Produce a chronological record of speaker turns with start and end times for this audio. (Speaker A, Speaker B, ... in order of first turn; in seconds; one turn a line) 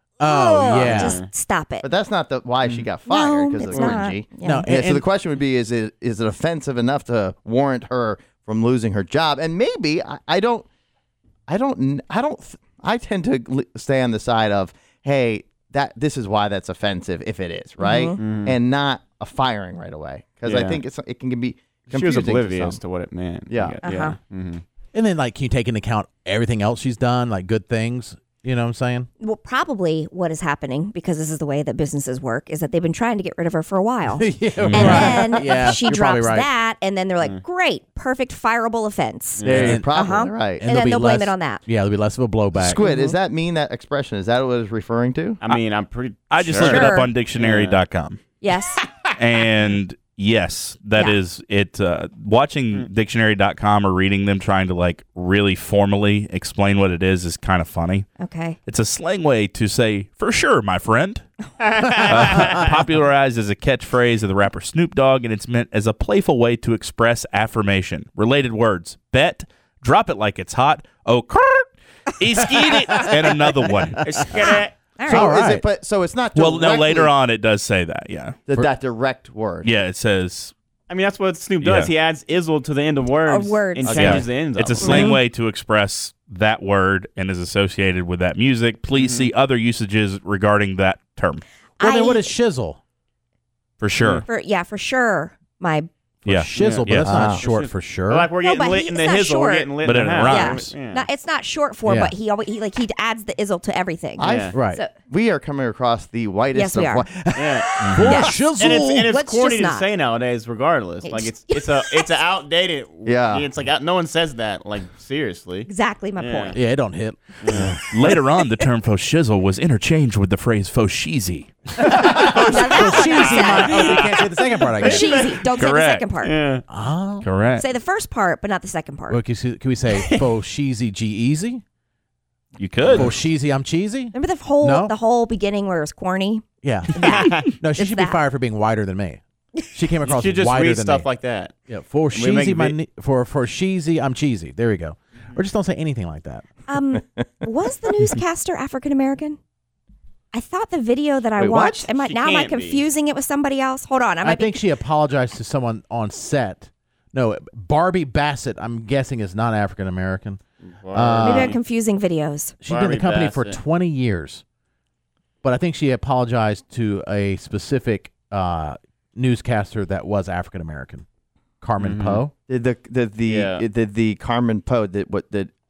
Speaker A: 0.2-1.2
Speaker B: 0.2-1.9
Speaker C: 1.8-10.7
Speaker D: 2.6-2.9
Speaker B: 3.0-4.7
Speaker A: 4.4-5.0
Speaker C: 11.5-22.8
Speaker B: 17.8-18.2
Speaker D: 18.2-18.5
Speaker D: 20.4-20.8
Speaker D: 21.9-24.6
Speaker C: 23.5-23.8
Speaker B: 23.8-24.1
Speaker A: 24.9-29.1
Speaker B: 29.2-41.6
Speaker A: 34.1-36.5
Speaker E: 34.6-35.2
Speaker D: 39.4-39.8
Speaker C: 39.4-40.6
Speaker A: 39.5-39.9
Speaker A: 40.6-42.8
Speaker C: 42.5-45.4
Speaker B: 42.8-43.1
Speaker D: 45.4-47.8
Speaker E: 46.3-48.2
Speaker B: 46.6-47.1
Speaker B: 48.4-48.9
Speaker E: 49.2-58.0
Speaker B: 58.2-58.6
Speaker E: 58.7-61.2
Speaker D: 61.8-62.0
Speaker E: 62.0-74.1
Speaker A: 73.0-73.8
Speaker D: 74.0-74.8
Speaker B: 75.0-75.3
Speaker A: 75.1-75.6
Speaker C: 75.1-77.1
Speaker E: 76.3-78.4
Speaker C: 78.5-79.7
Speaker E: 79.6-80.5
Speaker D: 80.9-85.1
Speaker E: 81.6-81.9
Speaker B: 83.2-84.0
Speaker C: 83.8-84.2
Speaker E: 83.9-91.4
Speaker B: 84.8-85.2
Speaker B: 91.8-92.3
Speaker A: 91.8-92.8
Speaker E: 93.8-94.2
Speaker B: 94.3-95.9
Speaker A: 96.2-98.3
Speaker E: 96.2-97.2
Speaker D: 96.5-101.0
Speaker C: 97.0-97.4
Speaker B: 98.4-104.9
Speaker E: 99.8-100.8
Speaker A: 101.8-102.1
Speaker C: 104.2-104.5
Speaker A: 104.5-104.8
Speaker C: 105.1-107.3
Speaker B: 106.5-107.0
Speaker D: 107.3-107.7
Speaker E: 107.8-108.2
Speaker A: 107.9-109.0
Speaker B: 108.0-108.5
Speaker D: 108.5-115.7
Speaker B: 109.0-109.9
Speaker B: 111.0-112.2
Speaker C: 113.0-113.5
Speaker B: 115.7-116.6
Speaker D: 116.2-116.6
Speaker A: 116.5-118.2
Speaker E: 117.6-122.3
Speaker A: 121.9-125.1
Speaker B: 122.4-126.3
Speaker D: 124.9-125.3
Speaker E: 125.5-126.1
Speaker D: 126.2-126.6
Speaker A: 126.7-127.3
Speaker E: 127.2-127.6
Speaker B: 127.6-129.2
Speaker A: 129.1-131.6
Speaker E: 132.6-133.1
Speaker A: 132.9-134.9
Speaker B: 134.1-138.2
Speaker A: 136.6-141.1
Speaker D: 140.1-141.5
Speaker A: 141.7-146.4
Speaker D: 142.1-142.8
Speaker B: 146.7-149.4
Speaker B: 150.3-154.6
Speaker C: 151.4-151.8
Speaker D: 152.0-152.8
Speaker A: 154.2-160.4
Speaker D: 160.7-161.5
Speaker A: 160.9-161.6
Speaker B: 161.2-162.6
Speaker A: 162.6-164.4
Speaker D: 162.7-163.6
Speaker A: 165.4-171.1
Speaker A: 171.6-172.3
Speaker D: 171.8-172.2
Speaker C: 172.5-175.5
Speaker D: 173.3-173.6